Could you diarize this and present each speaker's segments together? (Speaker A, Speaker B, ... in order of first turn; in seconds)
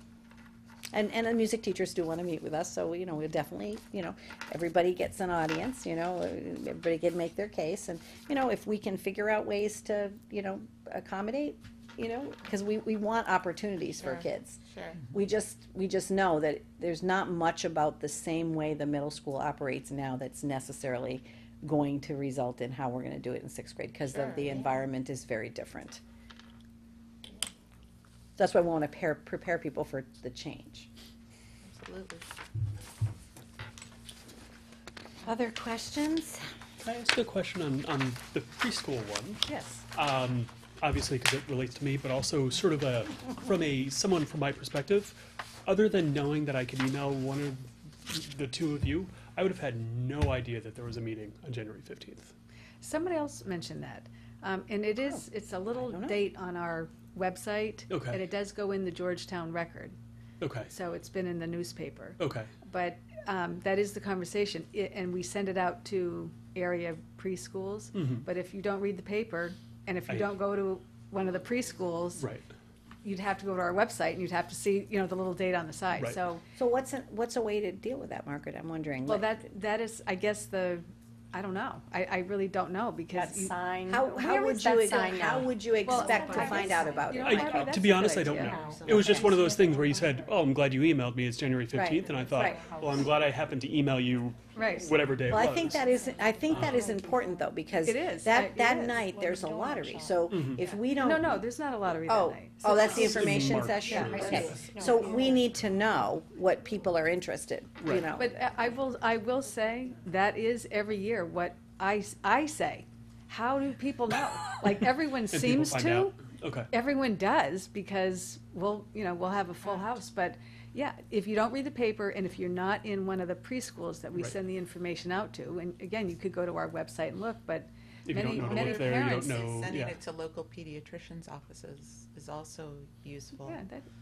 Speaker A: 0.9-26.0, 28.4-30.9, 35.2-36.5, 55.1-56.2, 76.5-79.4, 83.9-87.8, 91.7-92.6, 95.3-101.4, 102.1-108.3
Speaker B: 13.9-15.0, 24.1-24.6, 31.6-32.3, 128.4-133.6
Speaker C: 36.8-52.3, 57.9-58.2, 60.4-60.7, 62.2-62.5, 67.9-68.2, 70.1-70.4, 72.2-72.5, 87.2-95.8, 96.5-96.8, 100.3-100.6, 102.8-104.7, 107.8-108.1, 114.6-116.7, 128.1-130.0
Speaker D: 39.5-39.8, 52.8-59.9, 60.7-72.3, 73.0-76.4, 79.0-83.5, 85.8-89.4, 94.5-94.9, 97.8-98.9, 100.9-103.3, 103.8-104.4, 108.1-116.2, 116.7-129.4, 133.4-133.9
Speaker E: 83.1-87.5, 88.3-90.3, 92.0-93.1, 95.7-97.5, 98.8-100.8, 103.8-105.5